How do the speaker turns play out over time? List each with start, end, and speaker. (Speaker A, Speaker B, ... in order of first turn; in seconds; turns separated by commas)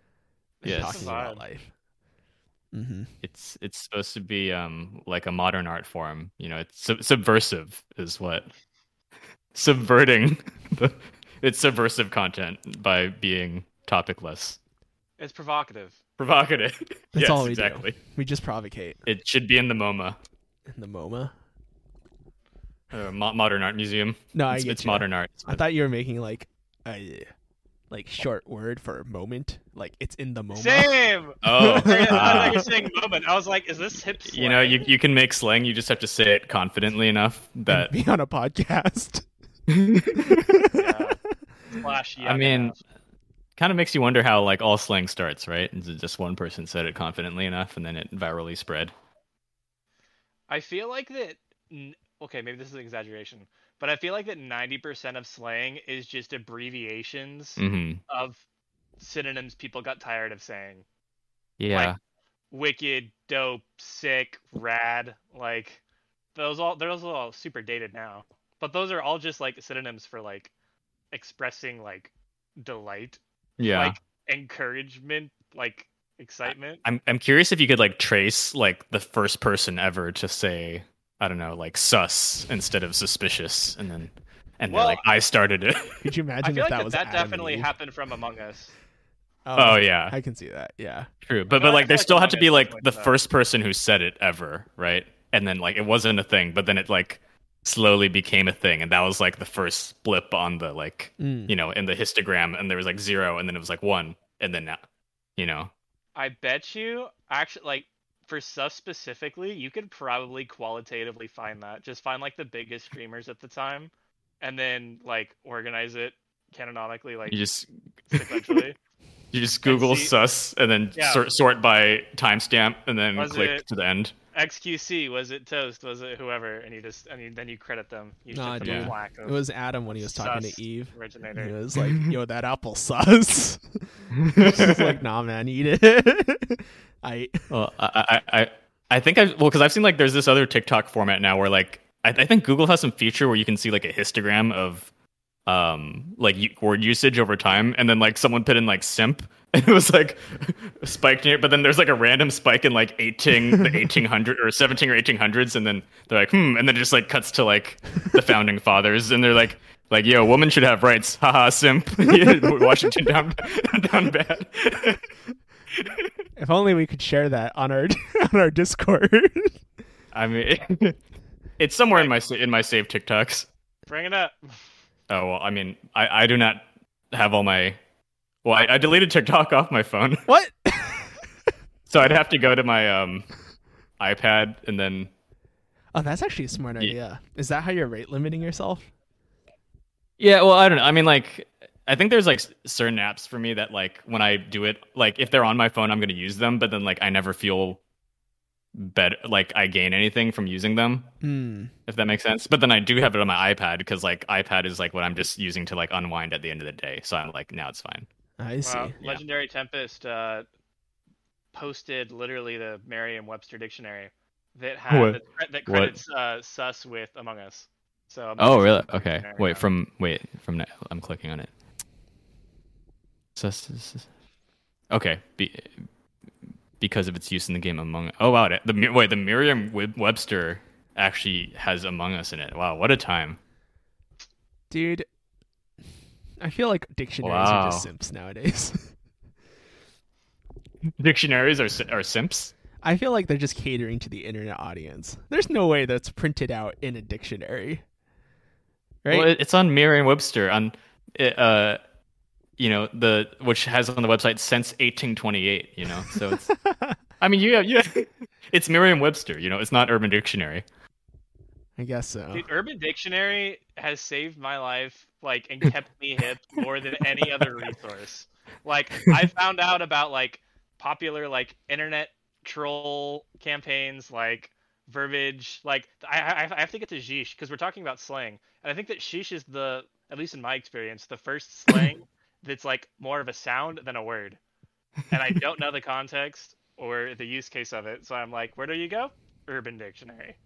Speaker A: 0.6-1.4, Speaker B: 0.6-1.1, Speaker C: 0.7-1.7, Speaker C: 2.7-3.1, Speaker B: 3.2-8.5, Speaker B: 9.5-14.6, Speaker A: 15.2-16.0, Speaker B: 16.2-18.0, Speaker C: 17.1-19.0, Speaker B: 19.1-20.2, Speaker C: 20.7-21.3, Speaker B: 22.9-25.6, Speaker C: 24.3-27.3, Speaker C: 27.9-31.0, Speaker A: 30.6-34.9, Speaker B: 31.4-32.6, Speaker C: 31.5-32.6, Speaker B: 34.2-37.9, Speaker C: 37.7-39.3, Speaker B: 39.7-40.4, Speaker C: 40.2-40.7, Speaker A: 40.7-42.8, Speaker B: 42.2-42.7, Speaker B: 43.6-48.9, Speaker A: 50.5-58.4, Speaker B: 57.6-58.0, Speaker A: 59.0-60.9, Speaker B: 61.6-62.0, Speaker A: 62.5-65.8, Speaker A: 66.3-70.5, Speaker A: 71.1-76.8, Speaker B: 73.6-74.0, Speaker B: 76.8-86.0, Speaker A: 84.7-85.0, Speaker C: 86.0-87.7, Speaker A: 86.4-88.7, Speaker C: 89.5-91.1, Speaker B: 89.6-90.1, Speaker B: 91.2-104.8, Speaker A: 91.5-93.1, Speaker C: 101.2-101.5, Speaker B: 105.4-105.7, Speaker A: 106.2-117.4, Speaker B: 117.3-118.6, Speaker A: 118.1-118.8, Speaker B: 119.3-124.1, Speaker A: 119.7-120.1, Speaker A: 121.0-121.2, Speaker A: 123.2-123.7, Speaker A: 124.3-129.4, Speaker C: 128.3-137.4, Speaker B: 128.6-128.9, Speaker A: 130.0-131.6, Speaker B: 131.8-132.1, Speaker B: 134.1-135.0, Speaker B: 137.5-144.9, Speaker B: 145.5-165.0, Speaker C: 162.3-162.6, Speaker B: 165.8-166.1, Speaker C: 166.4-169.6, Speaker B: 170.1-171.0, Speaker B: 171.6-173.5, Speaker A: 173.9-174.6, Speaker B: 175.1-177.8, Speaker B: 178.4-180.3, Speaker C: 180.3-181.2, Speaker B: 181.9-183.3, Speaker B: 184.0-185.1, Speaker C: 185.9-188.9, Speaker B: 190.2-197.8, Speaker B: 198.7-201.1, Speaker C: 201.2-201.7, Speaker B: 201.9-208.1, Speaker C: 208.4-208.9, Speaker A: 208.7-210.5, Speaker A: 211.5-219.7, Speaker B: 214.9-216.0, Speaker B: 218.4-221.5, Speaker B: 223.3-224.1, Speaker B: 224.9-225.8, Speaker B: 226.8-233.4, Speaker C: 234.7-235.1, Speaker C: 236.4-238.9, Speaker B: 237.2-237.9, Speaker B: 241.0-242.5, Speaker C: 242.8-247.8, Speaker C: 249.0-249.3, Speaker B: 249.1-251.8, Speaker B: 252.6-256.5, Speaker C: 256.1-257.0, Speaker B: 257.2-260.6, Speaker C: 261.8-262.4, Speaker A: 262.3-284.4, Speaker A: 285.1-290.4